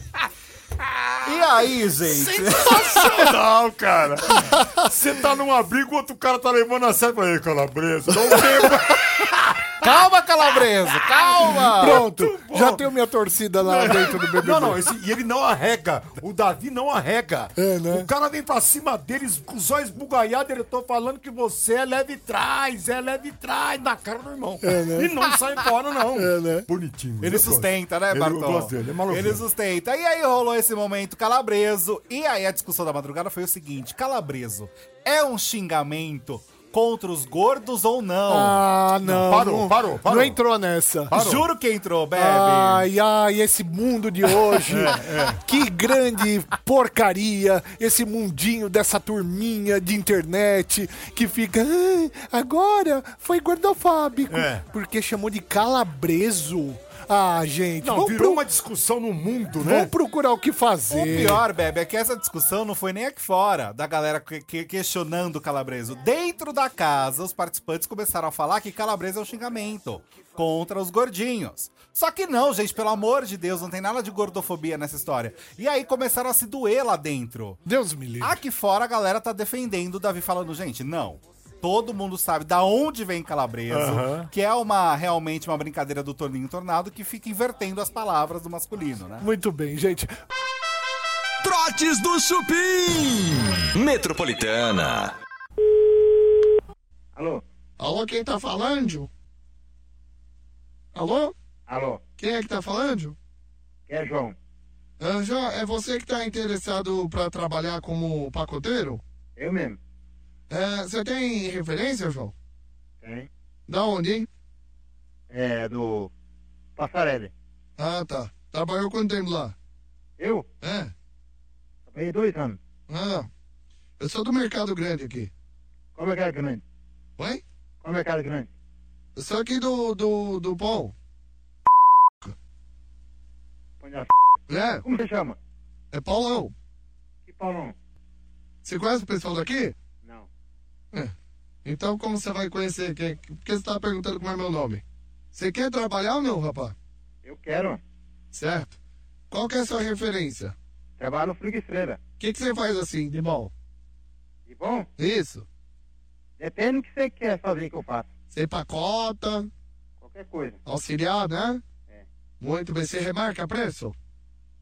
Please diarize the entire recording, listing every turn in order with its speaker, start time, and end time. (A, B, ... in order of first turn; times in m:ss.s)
0:01.2-0:03.2 A
0:02.1-0:09.9 B
0:04.4-0:05.0 C
0:09.8-0:12.0 A
0:11.1-0:12.9 B
0:11.8-0:14.8 C
0:13.6-0:29.4 B
0:17.6-0:18.1 C
0:24.6-0:25.1 C
0:26.2-0:26.7 C
0:27.2-0:38.6 A
0:38.3-0:41.1 C
0:39.0-0:40.4 B
0:41.1-0:41.5 B
0:41.1-0:42.9 A
0:42.2-0:58.4 C
0:44.5-0:45.4 B
0:54.3-0:54.6 B
0:57.8-0:59.9 B
0:59.6-1:01.4 C
1:00.9-1:17.6 A
1:17.6-1:18.4 C
1:18.2-1:29.2 A
1:23.7-1:24.3 B
1:29.2-1:30.1 C
1:31.4-1:35.1 D
1:37.1-1:37.4 E
1:37.8-1:39.1 F
1:40.9-1:41.3 F
1:41.7-1:42.0 E
1:42.2-1:43.2 F
1:43.9-1:44.4 E
1:45.0-1:49.0 F
1:49.4-1:49.8 E
1:50.5-1:52.3 F
1:53.0-1:53.3 E
1:53.7-1:54.3 F
1:55.3-1:56.1 E
1:56.8-1:57.3 E
1:57.8-1:59.6 F
2:00.2-2:00.4 E
2:00.6-2:00.9 F
2:01.9-2:02.6 E
2:02.9-2:03.3 F
2:04.0-2:05.3 F
2:05.9-2:06.6 E
2:07.8-2:08.5 E
2:09.2-2:10.9 F
2:13.8-2:14.1 E
2:14.5-2:14.8 F
2:14.8-2:15.4 E
2:15.9-2:16.5 F
2:17.3-2:17.7 E
2:18.6-2:19.8 F
2:21.6-2:26.8 F
2:27.2-2:27.8 E
2:28.3-2:28.7 F
2:29.3-2:30.6 F
2:31.0-2:32.0 E
2:32.2-2:33.5 F
2:34.5-2:34.9 E
2:35.0-2:35.4 F
2:36.4-2:38.1 E
2:38.3-2:39.5 F
2:40.0-2:40.6 E
2:40.6-2:41.6 F
2:42.4-2:44.0 F